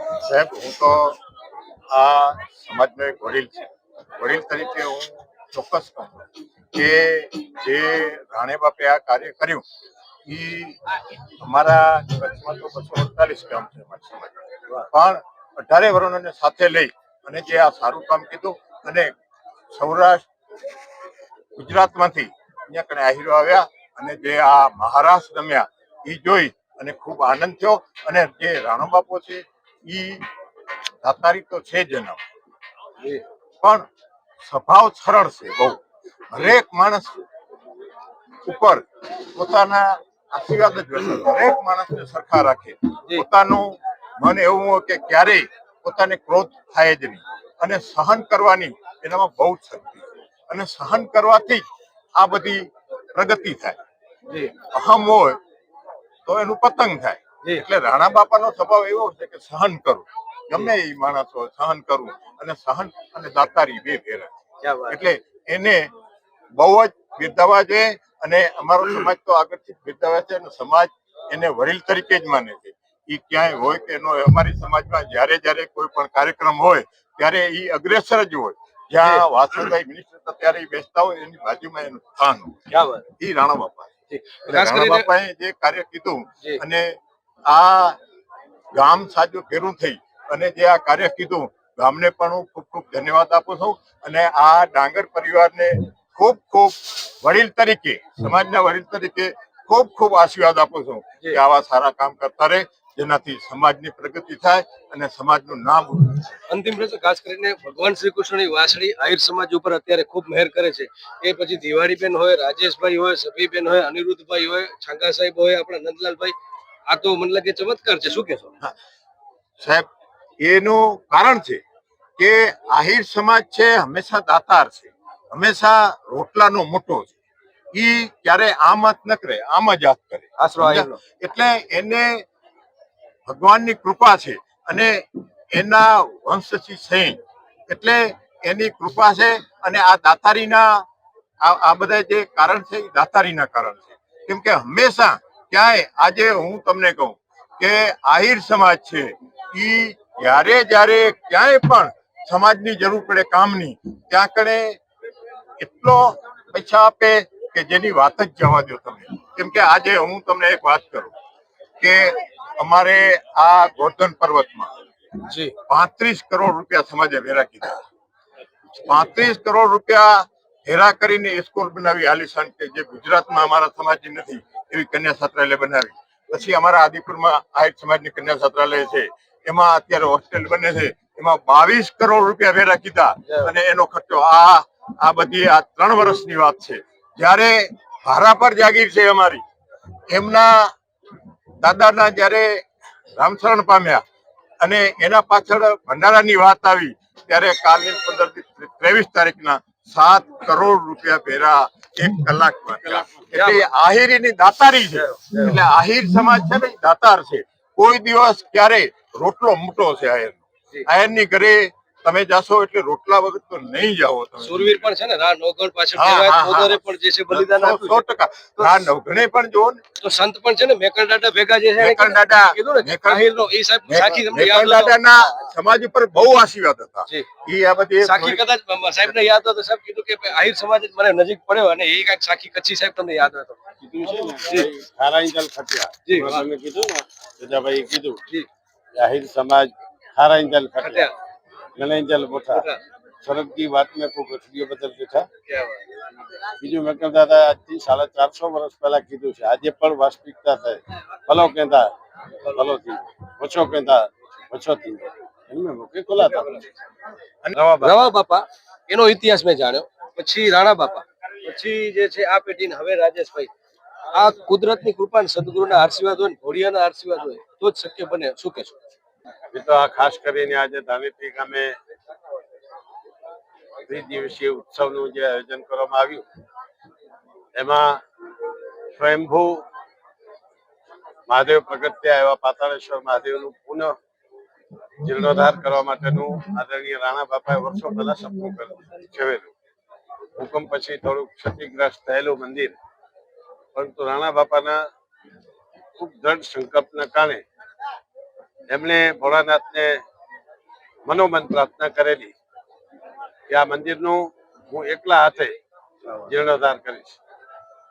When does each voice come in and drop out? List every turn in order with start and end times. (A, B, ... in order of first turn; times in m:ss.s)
0:00.2-0:01.2 A
0:01.9-0:09.6 A
0:10.3-0:10.8 A
0:11.4-0:19.2 A
0:19.7-0:20.3 A
0:21.6-0:30.2 A
0:31.0-0:32.2 A
0:34.4-0:35.8 A
0:36.3-0:37.2 A
0:38.4-0:51.6 A
0:52.2-0:53.8 A
0:54.7-0:55.4 A
0:56.3-1:04.3 A
1:04.6-1:05.0 B
1:04.9-1:05.9 A
1:06.6-1:22.7 A
1:22.7-1:23.0 B
1:23.2-1:23.9 A
1:24.1-1:25.1 B
1:24.5-1:27.0 A
1:27.5-1:28.0 A
1:28.7-1:46.3 A
1:46.5-1:56.4 B
1:56.9-1:58.5 B
1:59.6-1:59.9 A
2:00.4-2:01.6 A
2:02.2-2:07.2 A
2:07.7-2:12.2 A
2:10.4-2:11.0 B
2:13.3-2:20.9 A
2:21.4-2:34.8 A
2:35.6-2:41.1 A
2:41.8-2:44.7 A
2:45.7-2:47.8 A
2:48.8-3:09.4 A
3:10.1-3:10.7 A
3:11.6-3:12.6 A
3:13.2-3:14.0 A
3:14.6-3:34.7 A
3:23.3-3:23.6 B
3:25.0-3:25.4 B
3:34.4-3:38.0 B
3:36.0-3:39.8 A
3:38.6-3:38.8 B
3:40.0-3:45.0 B
3:41.8-3:43.3 A
3:43.9-3:48.4 A
3:48.0-3:54.7 B
3:54.2-3:58.2 C
3:56.1-3:56.4 B
3:59.0-4:01.1 C
4:00.8-4:01.1 B
4:01.8-4:02.7 C
4:02.5-4:02.8 B
4:03.2-4:05.3 C
4:05.5-4:05.8 B
4:06.6-4:11.9 C
4:12.5-4:16.7 C
4:17.6-4:18.0 C
4:17.8-4:23.5 B
4:24.1-4:28.8 B
4:29.5-4:31.8 C
4:33.9-4:36.2 C
4:37.6-4:38.0 C
4:39.0-4:39.6 C
4:41.3-4:43.9 C
4:45.0-4:49.5 C
4:50.4-4:52.8 C
4:53.8-4:54.8 C
4:56.0-4:57.4 C
4:58.7-5:00.0 C
5:01.1-5:02.3 C
5:03.5-5:05.6 C
5:06.3-5:07.2 C